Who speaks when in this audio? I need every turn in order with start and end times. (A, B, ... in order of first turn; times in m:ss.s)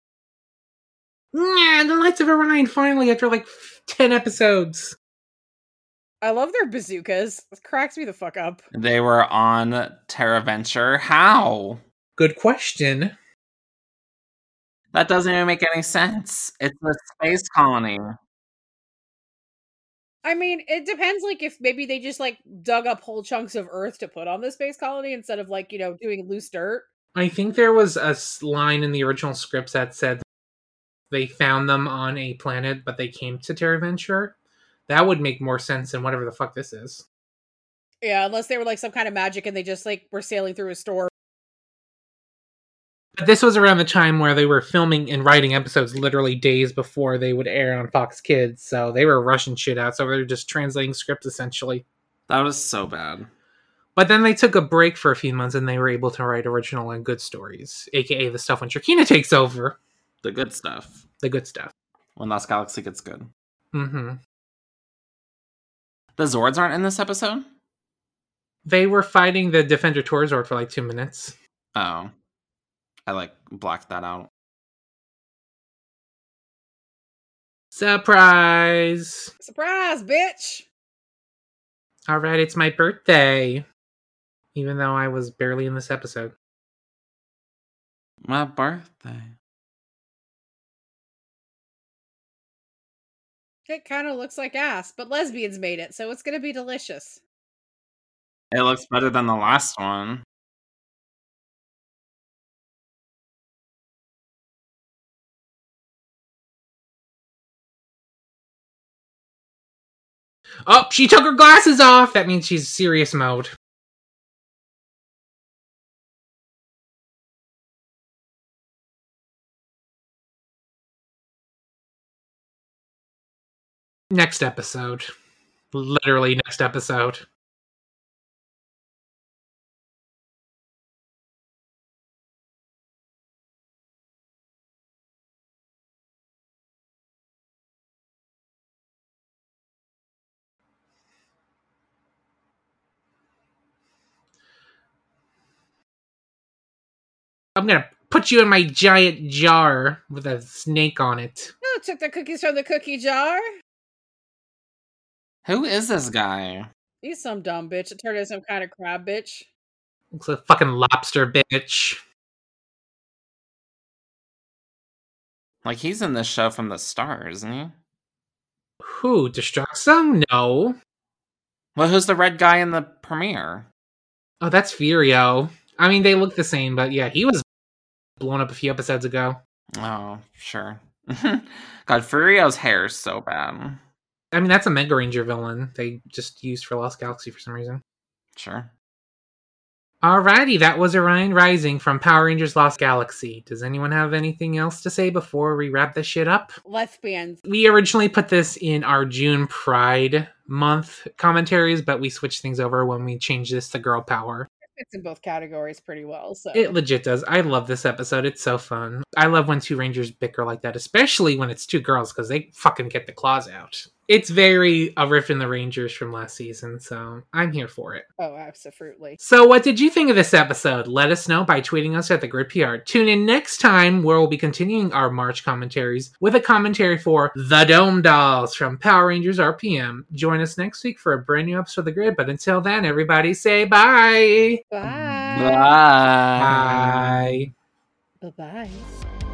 0:01.3-0:05.0 A
0:06.2-0:08.6 B
0:08.7-0:11.8 C
0:12.2-0:13.1 A
0:14.9-0:18.2 C
0:20.2-0:26.9 B
0:27.1-0:30.2 A
0:31.1-0:34.3 A
0:34.9-0:37.0 A
0:38.0-0:41.1 B
0:43.2-0:51.8 A
0:52.3-0:53.3 C
0:54.0-0:59.8 A
1:00.2-1:01.0 C
1:01.2-1:01.7 A
1:02.2-1:03.3 C
1:03.7-1:04.2 A
1:06.2-1:07.5 C
1:08.6-1:11.4 A
1:11.7-1:12.1 C
1:13.1-1:14.3 C
1:17.7-1:19.3 A
1:19.4-1:20.6 B
1:22.1-1:23.6 A
1:24.5-1:26.3 A
1:28.2-1:29.3 C
1:33.7-1:37.2 B
1:38.5-1:40.2 C
1:50.7-1:53.5 A
2:04.1-2:05.1 A
2:05.7-2:07.2 A
2:27.6-2:31.5 A
2:31.6-2:33.4 B
2:35.4-2:36.7 C
2:37.0-2:39.5 B
2:40.1-2:42.0 A
2:45.6-2:47.7 C
2:48.8-2:50.8 A
2:51.8-2:53.7 C
2:54.4-2:57.4 A
2:58.2-2:59.4 A
2:59.7-3:03.8 C
3:04.3-3:07.8 A
3:08.3-3:08.7 C
3:10.0-3:16.6 A
3:16.6-3:17.4 B
3:17.5-3:24.5 A
3:24.7-3:26.7 B
3:26.5-3:38.0 A
3:38.2-3:39.2 B
3:39.2-3:54.6 A
3:54.7-3:55.8 B
3:54.9-3:57.4 C
3:56.4-3:57.5 A
3:58.2-3:58.9 B